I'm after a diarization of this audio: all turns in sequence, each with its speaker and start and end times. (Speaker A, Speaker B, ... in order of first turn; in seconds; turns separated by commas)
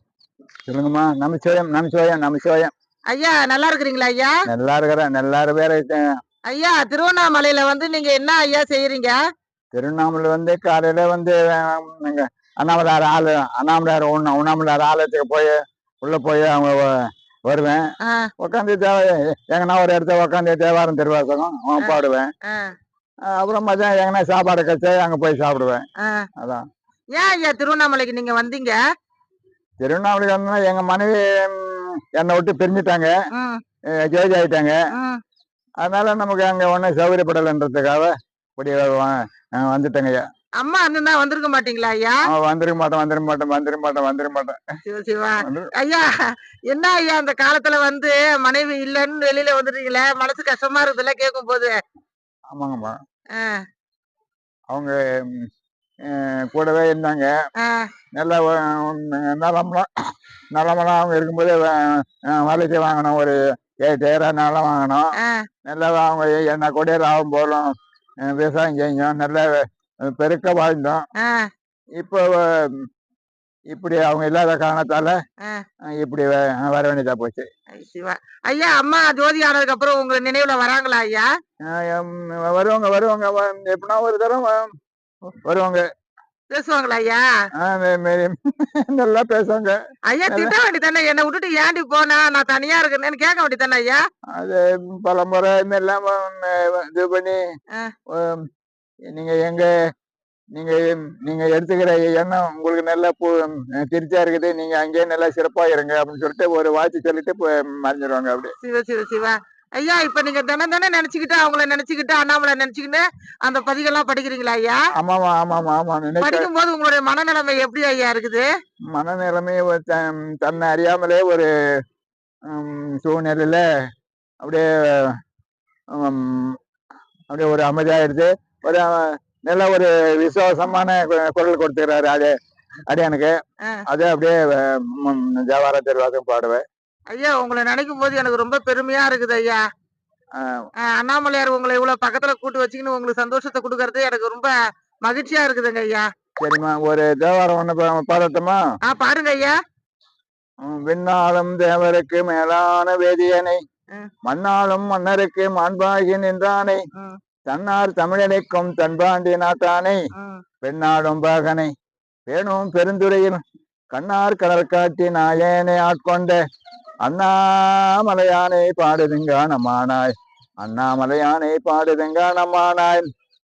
Speaker A: 0.7-2.7, Speaker B: 3.1-4.3, Speaker A: 4.5-6.0, Speaker B: 6.5-9.2, Speaker A: 9.7-16.9, Speaker A: 17.5-17.8, Speaker B: 18.0-18.3, Speaker A: 18.4-22.3, Speaker B: 21.8-22.7, Speaker A: 23.3-25.8, Speaker B: 26.0-26.3, Speaker A: 26.4-26.6, Speaker B: 27.1-28.8, Speaker A: 29.8-33.1, Speaker B: 33.3-33.6, Speaker A: 34.0-34.8, Speaker B: 34.9-35.2, Speaker A: 35.8-40.2, Speaker B: 40.6-42.2, Speaker A: 42.3-44.6, Speaker B: 44.9-46.1, Speaker A: 45.4-45.7, Speaker B: 46.7-51.7, Speaker A: 52.5-52.9, Speaker B: 53.4-53.6, Speaker A: 54.7-55.5, Speaker A: 56.0-57.3, Speaker B: 57.6-57.9, Speaker A: 58.1-59.9, Speaker A: 60.5-65.1, Speaker B: 65.2-65.5, Speaker A: 65.7-67.7, Speaker A: 68.2-71.0, Speaker B: 71.2-71.5, Speaker A: 72.0-72.8, Speaker A: 73.7-75.2, Speaker A: 76.0-77.5, Speaker B: 77.8-81.3, Speaker A: 81.7-84.7, Speaker A: 85.4-85.8, Speaker B: 86.5-87.2, Speaker A: 87.6-89.7, Speaker B: 90.1-94.0, Speaker A: 90.3-90.5, Speaker A: 94.3-97.4, Speaker A: 98.1-98.4, Speaker A: 99.1-99.7, Speaker A: 100.5-108.5, Speaker B: 108.6-114.8, Speaker A: 115.0-116.5, Speaker B: 116.2-118.4, Speaker A: 118.9-121.5, Speaker A: 122.5-123.6, Speaker A: 124.4-125.2, Speaker A: 125.9-126.6, Speaker A: 127.3-132.3, Speaker A: 132.9-133.3, Speaker A: 133.9-136.6, Speaker B: 137.1-139.6, Speaker A: 140.3-140.7, Speaker B: 140.8-144.5, Speaker B: 145.0-146.1, Speaker A: 146.4-148.6, Speaker B: 148.8-149.5, Speaker A: 150.6-153.6, Speaker A: 154.2-156.8, Speaker A: 157.5-160.0, Speaker B: 160.2-160.4, Speaker A: 160.6-161.7, Speaker A: 162.3-163.4, Speaker A: 163.9-166.4, Speaker A: 167.0-170.1, Speaker A: 170.6-173.1